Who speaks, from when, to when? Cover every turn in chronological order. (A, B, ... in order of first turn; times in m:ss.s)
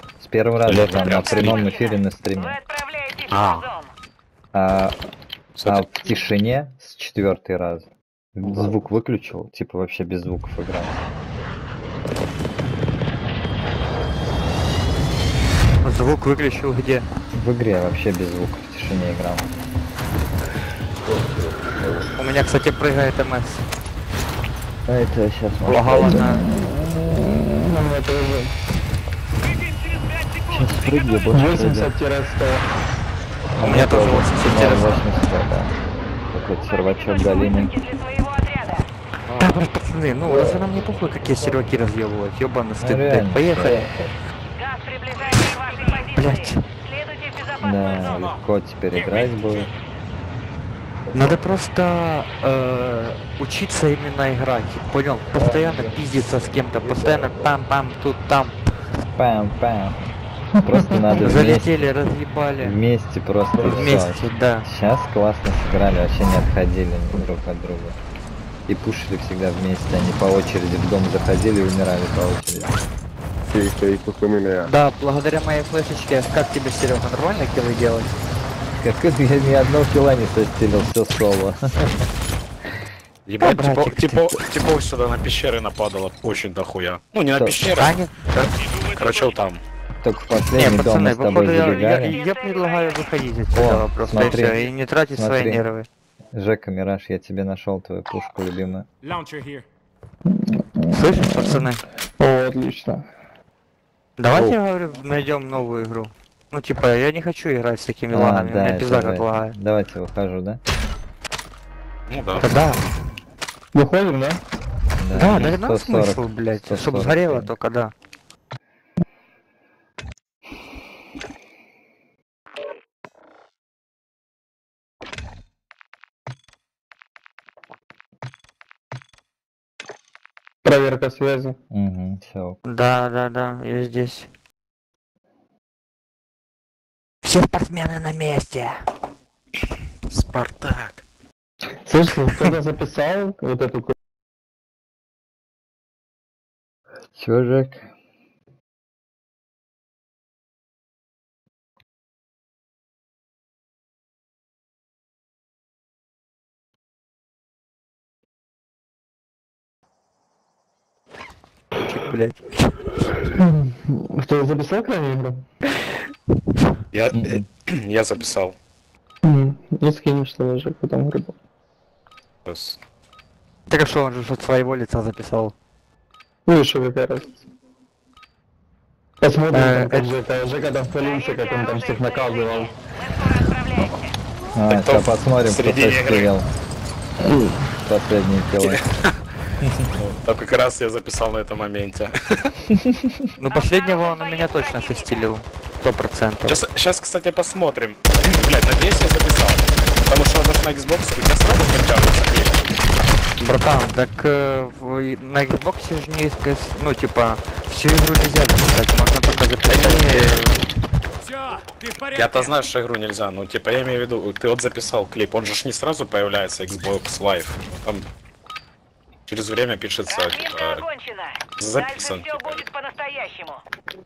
0:00.2-0:02.6 A
0:00.7-0:01.7 B
0:01.0-0:03.9 C
0:03.3-0:03.6 B
0:04.5-0:05.0 A
0:05.6-0:05.8 B
0:05.6-0:11.0 A
0:15.8-0:17.1 D
0:17.3-0:19.5 A
0:22.2-0:23.6 D
0:24.9-0:26.4 A
0:25.7-0:26.4 D
0:26.0-0:28.5 E
0:30.5-0:31.9 A
0:31.3-0:32.6 E
0:33.5-0:35.8 A
0:33.6-0:35.0 D
0:36.3-0:37.8 A
0:36.7-0:38.9 C
0:39.3-0:43.9 D
0:42.8-0:44.2 A
0:44.6-0:47.8 C
0:46.2-0:46.6 D
0:47.6-0:49.7 A
0:51.1-0:58.6 D
0:59.1-1:01.9 A
1:00.6-1:00.9 E
1:01.2-1:02.8 D
1:02.6-1:08.0 A
1:03.6-1:04.7 D
1:08.7-1:12.7 A
1:14.6-1:18.2 D
1:18.8-1:22.1 A
1:23.3-1:28.0 B
1:23.4-1:24.4 D
1:27.3-1:27.6 A
1:27.8-1:28.5 D
1:28.6-1:29.6 B
1:30.0-1:32.2 A
1:30.6-1:35.9 D
1:32.1-1:33.2 C
1:33.5-1:35.6 A
1:36.3-1:38.9 A
1:39.0-1:39.7 F
1:40.3-1:41.6 E
1:40.9-1:41.8 D
1:42.2-1:43.1 E
1:44.2-1:49.6 D
1:48.1-1:50.6 A
1:52.1-1:52.5 B
1:52.4-1:52.8 D
1:53.7-1:54.4 E
1:55.0-1:57.6 A
1:55.1-1:57.9 D
2:10.6-2:11.6 E
2:11.7-2:12.6 A
2:12.7-2:14.3 D
2:17.2-2:18.8 D
2:20.1-2:21.0 B
2:21.8-2:24.0 E
2:27.2-2:27.9 A
2:41.8-2:42.9 D
2:43.4-2:45.4 E
2:46.9-2:48.6 B
2:47.1-2:47.4 A
2:49.2-2:51.4 E
2:52.4-2:52.8 B
2:53.7-2:55.5 D
2:56.5-2:57.5 E
2:59.2-3:02.7 E
2:59.5-3:00.1 D
3:00.9-3:04.1 C
3:04.6-3:06.5 A
3:04.7-3:06.3 B
3:07.2-3:07.6 E
3:07.9-3:08.8 A
3:08.6-3:09.2 B
3:09.6-3:09.9 A
3:09.9-3:12.6 B
3:12.7-3:13.3 A
3:13.4-3:16.6 D
3:13.5-3:15.3 C
3:16.5-3:22.6 B
3:23.4-3:30.6 D
3:29.7-3:30.5 B
3:31.2-3:32.6 F
3:32.2-3:38.1 B
3:39.3-3:40.8 B
3:40.1-3:43.6 C
3:41.6-3:42.6 B